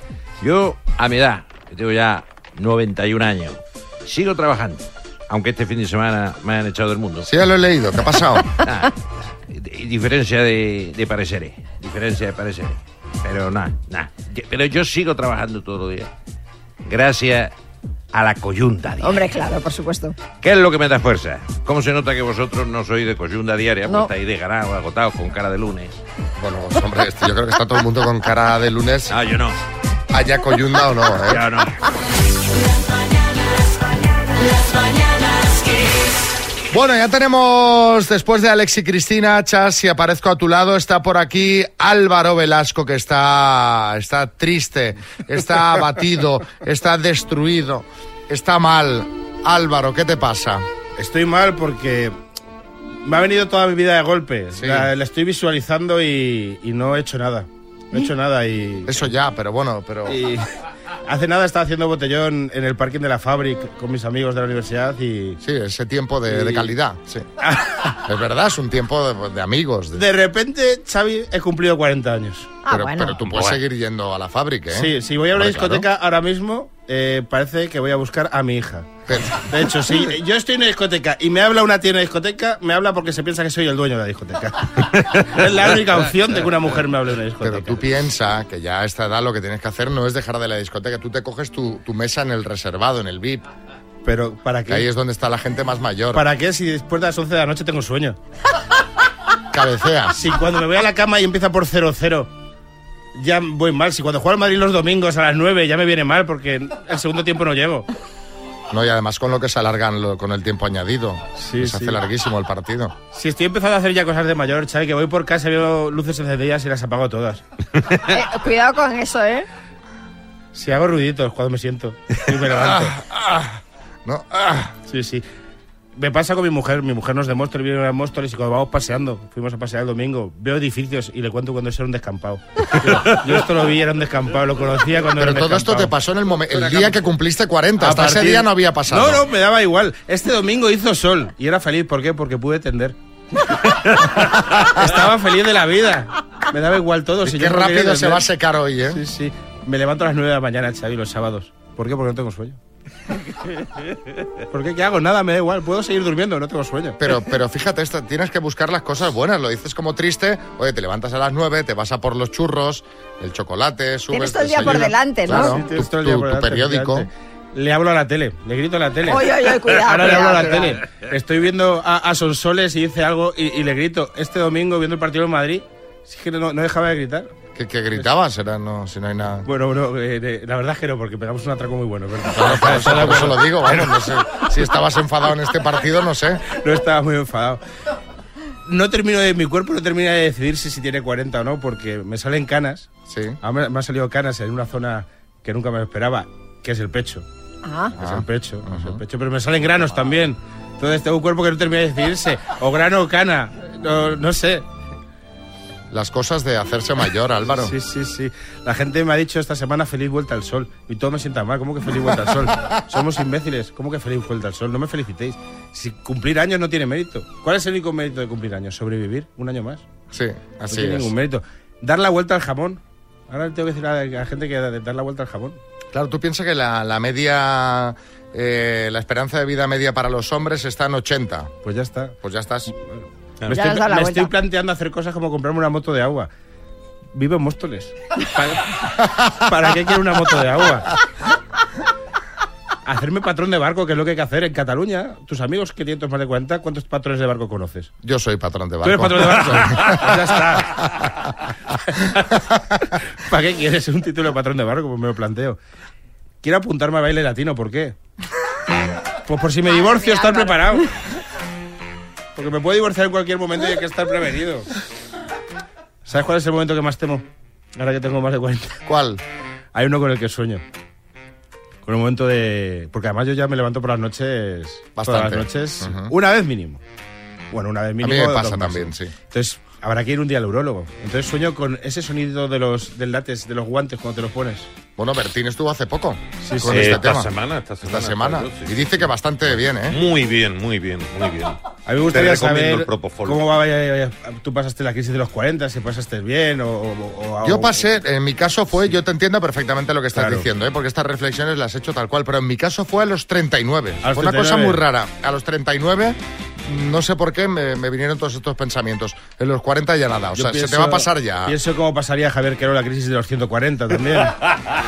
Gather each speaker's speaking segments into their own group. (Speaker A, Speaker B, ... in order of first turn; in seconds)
Speaker A: 0.4-7.3, 8.6-16.1, 16.9-17.5, 18.1-19.3, 20.4-25.9, 29.1-29.6, 31.2-31.8, 73.3-73.6
Speaker B: 7.3-8.5, 26.4-29.1, 30.1-31.4, 36.7-50.7, 54.6-54.9, 58.9-60.2, 65.4-67.3, 68.1-70.0, 72.7-75.9, 79.1-80.1, 87.4-93.5, 94.7-96.2, 99.5-100.2, 108.7-113.0, 122.7-123.5, 124.0-124.7, 135.2-139.2, 147.2-149.0, 157.0-167.1, 177.6-179.5, 182.3-186.4, 193.1-193.4, 198.0-199.0, 205.9-207.7, 220.1-221.1, 225.9-231.5, 232.2-232.7, 248.0-250.1, 268.9-269.2, 275.0-276.1, 278.0-279.1, 285.0-290.0, 297.4-311.6
Speaker C: 19.0-20.2, 72.6-73.2, 118.1-119.5, 164.1-165.6, 169.1-170.8, 197.6-198.0, 233.5-234.3, 259.7-260.8
Speaker D: 51.0-52.1, 53.0-58.9, 60.1-60.5, 61.1-65.4, 66.3-66.7, 67.4-67.9, 70.0-72.6, 74.7-87.8, 94.0-94.9, 96.1-98.2, 100.2-102.3, 103.2-107.9, 111.4-112.0, 113.1-117.4, 120.5-122.9, 124.9-125.2, 126.0-135.9, 136.5-136.9, 137.8-143.0, 144.7-148.2, 148.9-152.6, 154.5-157.0, 164.6-177.3, 179.4-183.9, 186.5-187.6, 188.7-192.9, 193.4-197.2, 197.9-204.6, 207.4-219.8, 220.7-225.6, 231.6-232.2, 232.8-236.3, 237.1-238.8, 239.3-240.9, 242.8-247.9, 248.8-250.8, 253.3-255.6, 256.4-257.9, 259.3-260.9, 262.4-264.7, 266.1-267.2, 267.8-268.8, 269.7-270.6, 271.9-276.8, 277.5-284.7, 286.4-286.9, 291.9-297.8, 300.1-300.5, 304.0-304.8, 310.4-314.4
Speaker E: 286.7-289.1, 289.9-291.6, 292.1-293.5